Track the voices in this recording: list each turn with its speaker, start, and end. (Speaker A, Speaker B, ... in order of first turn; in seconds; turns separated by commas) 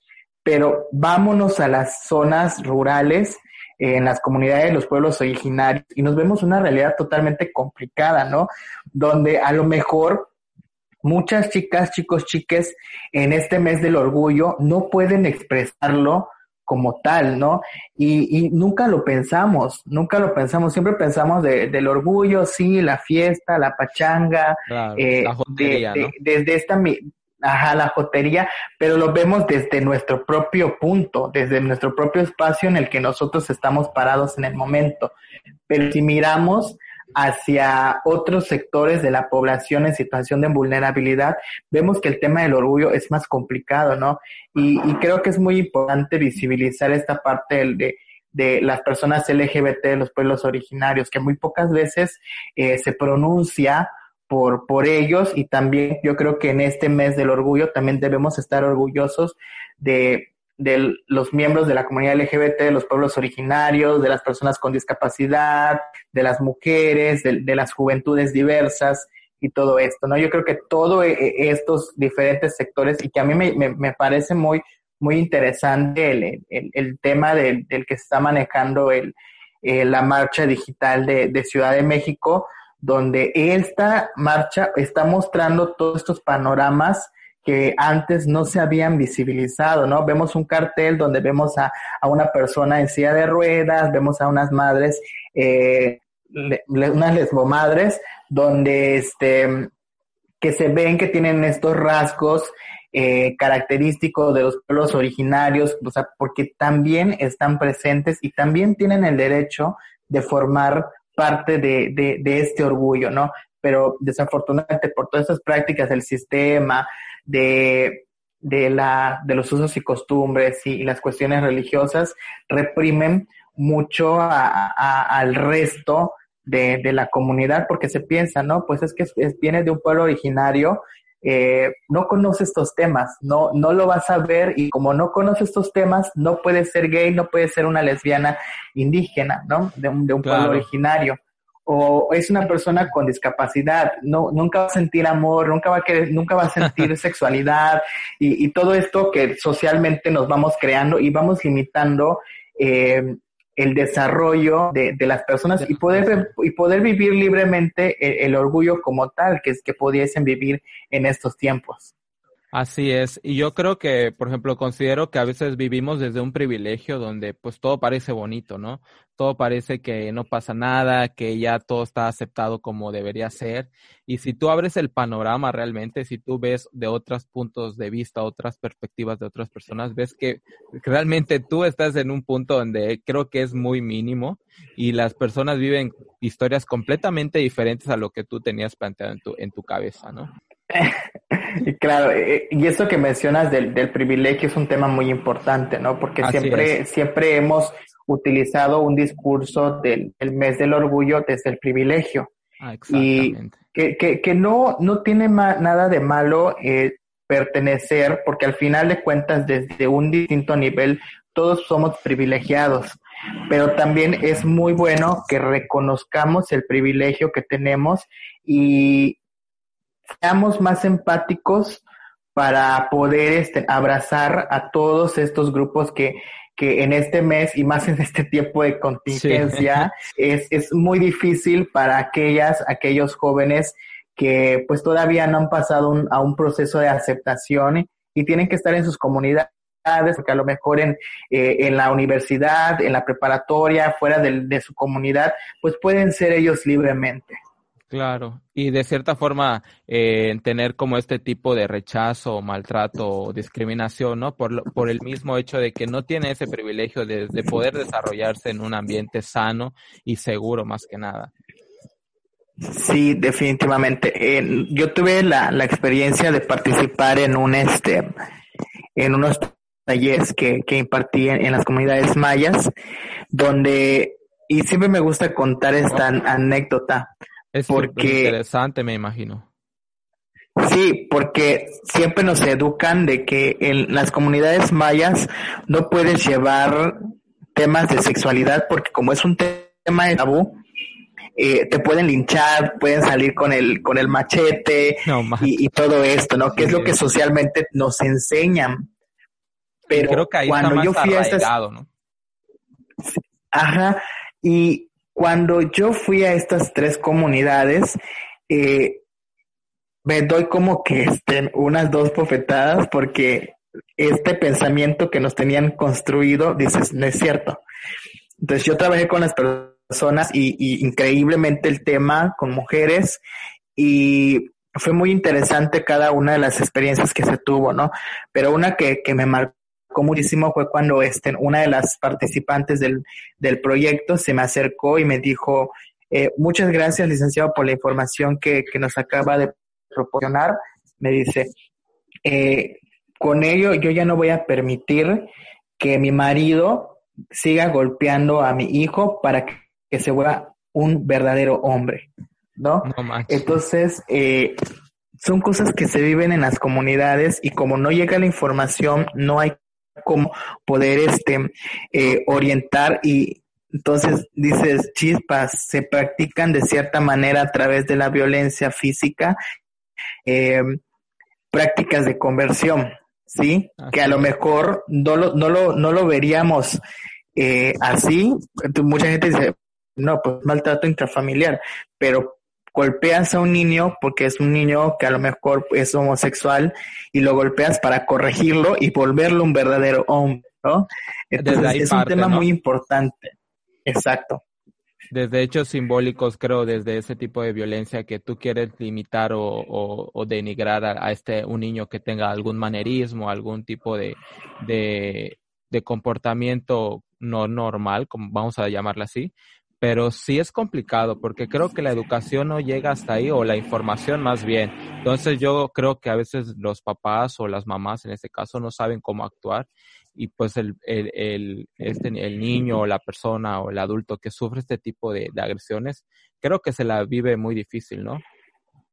Speaker A: 0.4-10.3, Speaker A: 11.0-35.1, Speaker B: 24.7-26.1, Speaker A: 35.7-99.7, Speaker A: 100.4-161.9, Speaker B: 140.2-140.7, Speaker B: 155.7-156.3, Speaker B: 162.5-190.3, Speaker A: 190.7-202.3, Speaker B: 196.2-196.8, Speaker B: 202.6-203.6, Speaker A: 202.9-213.0, Speaker A: 213.5-219.2, Speaker A: 220.2-221.8, Speaker A: 222.3-247.4, Speaker B: 229.1-229.9, Speaker B: 247.9-261.3, Speaker A: 262.6-268.1, Speaker A: 268.9-272.7, Speaker A: 273.3-277.1, Speaker B: 277.5-279.4, Speaker A: 277.7-278.4, Speaker A: 280.6-287.0, Speaker A: 287.5-290.6, Speaker A: 291.4-298.9, Speaker B: 295.1-295.5, Speaker B: 296.6-296.9, Speaker B: 299.9-301.9, Speaker A: 299.9-301.5, Speaker A: 303.1-308.0, Speaker A: 308.5-309.0, Speaker A: 310.0-317.6, Speaker A: 318.4-323.2, Speaker A: 323.8-341.5, Speaker A: 342.2-354.6, Speaker B: 352.8-353.6, Speaker A: 355.2-369.4, Speaker B: 362.0-362.4, Speaker A: 370.2-370.8, Speaker A: 371.5-376.8, Speaker B: 373.8-374.3, Speaker A: 377.4-393.3, Speaker B: 391.4-392.4, Speaker A: 393.9-394.4, Speaker B: 395.1-409.3, Speaker B: 409.8-428.2